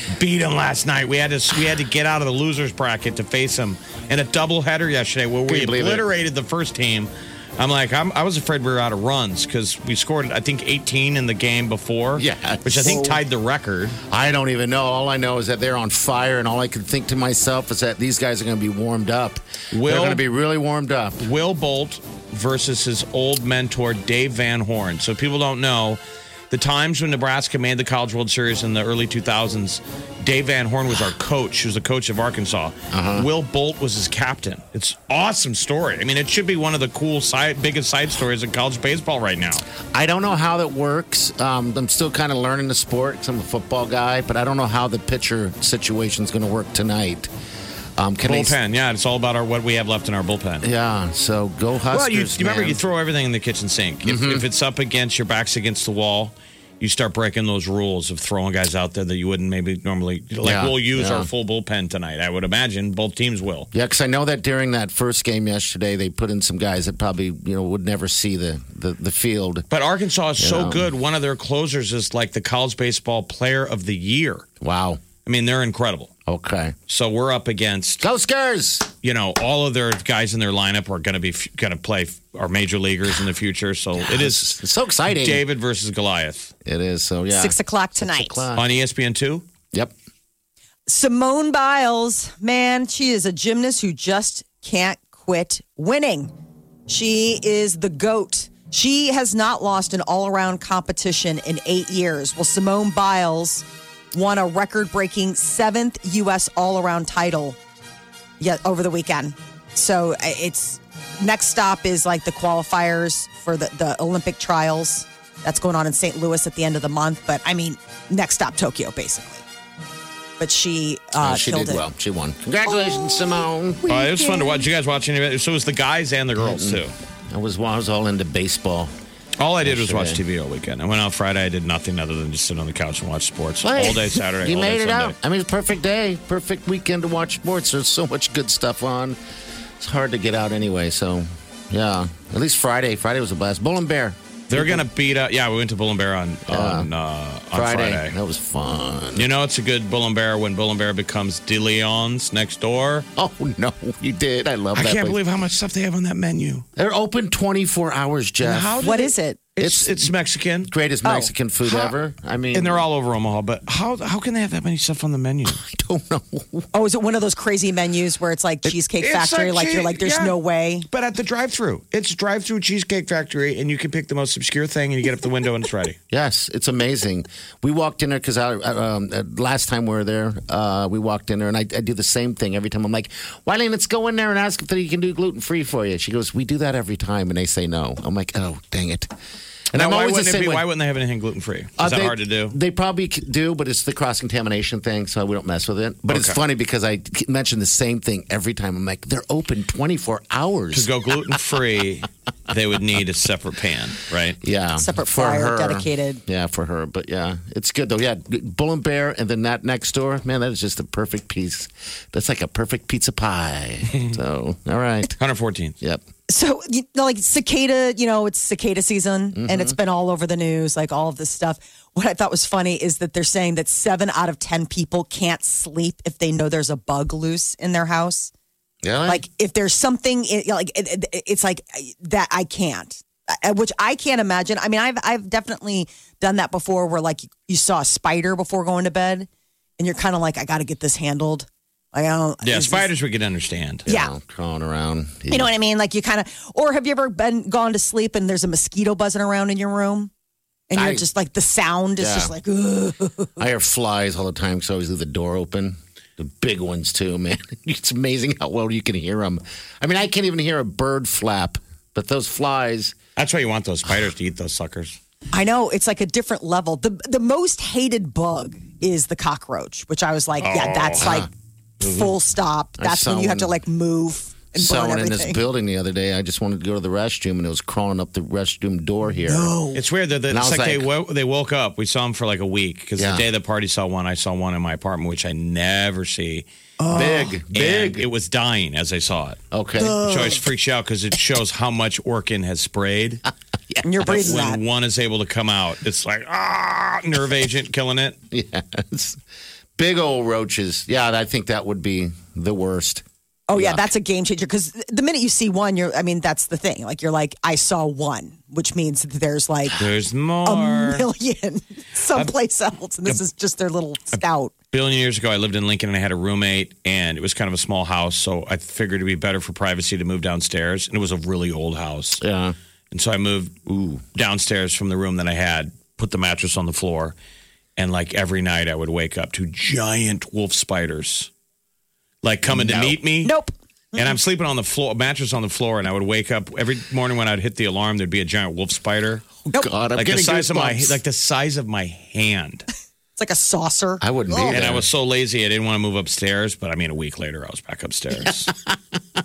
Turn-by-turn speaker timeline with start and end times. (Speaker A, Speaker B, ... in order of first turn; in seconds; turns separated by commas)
Speaker A: 0.1-14.0, Speaker B: 5.5-6.0, Speaker B: 12.2-13.2, Speaker B: 14.1-21.3, Speaker A: 19.7-20.2, Speaker A: 21.2-26.0, Speaker A: 26.5-39.6, Speaker B: 32.9-33.3, Speaker B: 39.9-47.3, Speaker B: 48.0-48.5, Speaker A: 48.2-50.7, Speaker B: 50.6-52.8, Speaker A: 51.9-63.7, Speaker B: 54.0-54.5, Speaker B: 60.4-61.3, Speaker B: 63.7-69.7, Speaker A: 69.7-74.5, Speaker B: 70.4-70.9, Speaker B: 74.6-75.0, Speaker A: 75.2-76.1, Speaker B: 76.2-76.8, Speaker A: 76.9-78.0, Speaker B: 78.0-78.9, Speaker A: 79.0-84.6, Speaker B: 84.0-85.4, Speaker A: 85.1-86.5, Speaker B: 86.6-88.7, Speaker C: 87.3-88.5, Speaker A: 88.5-89.4, Speaker C: 90.9-96.3, Speaker C: 96.9-107.6, Speaker C: 108.4-119.4, Speaker C: 120.4-121.8, Speaker B: 121.2-123.9, Speaker A: 123.9-126.9, Speaker C: 123.9-124.6, Speaker B: 126.4-128.9, Speaker A: 129.4-135.1, Speaker B: 129.6-130.2, Speaker B: 133.6-139.2, Speaker B: 139.8-144.8, Speaker A: 144.5-148.2, Speaker B: 146.5-146.9, Speaker B: 147.5-149.3, Speaker A: 149.2-153.1, Speaker B: 153.1-155.2, Speaker A: 154.7-156.6, Speaker B: 156.8-158.8, Speaker A: 158.4-160.7, Speaker C: 158.8-159.4, Speaker B: 159.6-160.1, Speaker B: 160.7-162.8, Speaker C: 161.0-161.3, Speaker A: 161.6-161.9, Speaker A: 162.5-165.6, Speaker B: 165.4-166.7, Speaker C: 166.7-170.9, Speaker A: 168.7-170.4, Speaker A: 170.9-176.0, Speaker B: 176.1-189.1, Speaker B: 189.7-190.7, Speaker A: 189.7-192.6, Speaker B: 191.8-200.9, Speaker A: 196.1-196.4, Speaker A: 200.7-204.4, Speaker B: 204.4-215.2, Speaker C: 204.8-206.2, Speaker A: 215.2-215.7, Speaker C: 216.3-228.3, Speaker B: 219.3-219.8, Speaker B: 228.8-229.2, Speaker C: 229.1-242.9, Speaker A: 242.4-243.8, Speaker B: 243.8-245.5, Speaker C: 243.9-244.1, Speaker C: 245.3-250.1, Speaker C: 250.7-253.4, Speaker B: 250.7-251.0, Speaker B: 252.0-252.3, Speaker B: 253.4-263.0, Speaker A: 263.1-265.0, Speaker C: 265.3-271.3, Speaker A: 270.4-271.2, Speaker B: 271.0-271.3, Speaker C: 271.8-275.4, Speaker A: 271.8-272.1, Speaker B: 272.8-273.5, Speaker B: 274.5-279.5, Speaker C: 279.3-279.8, Speaker A: 279.7-289.4, Speaker B: 280.3-280.9, Speaker B: 283.0-283.3, Speaker C: 286.8-287.3, Speaker B: 286.9-288.1, Speaker B: 289.5-290.1, Speaker C: 289.8-290.4, Speaker A: 289.9-293.2, Speaker C: 293.8-294.6, Speaker A: 294.0-298.2, Speaker B: 298.3-299.2, Speaker B: 299.8-303.9, Speaker C: 303.5-309.8, Speaker A: 309.8-311.1, Speaker C: 310.4-314.5, Speaker A: 314.7-322.2, Speaker B: 322.2-322.6, Speaker A: 322.9-323.6, Speaker B: 323.7-324.0, Speaker A: 324.1-327.1, Speaker A: 327.8-331.3, Speaker A: 332.2-333.3, Speaker B: 332.5-333.0, Speaker C: 333.2-334.1, Speaker A: 333.9-339.3, Speaker B: 339.5-341.0, Speaker A: 339.9-342.6, Speaker C: 343.2-344.6, Speaker B: 344.0-344.9, Speaker A: 344.5-348.5, Speaker B: 348.2-348.8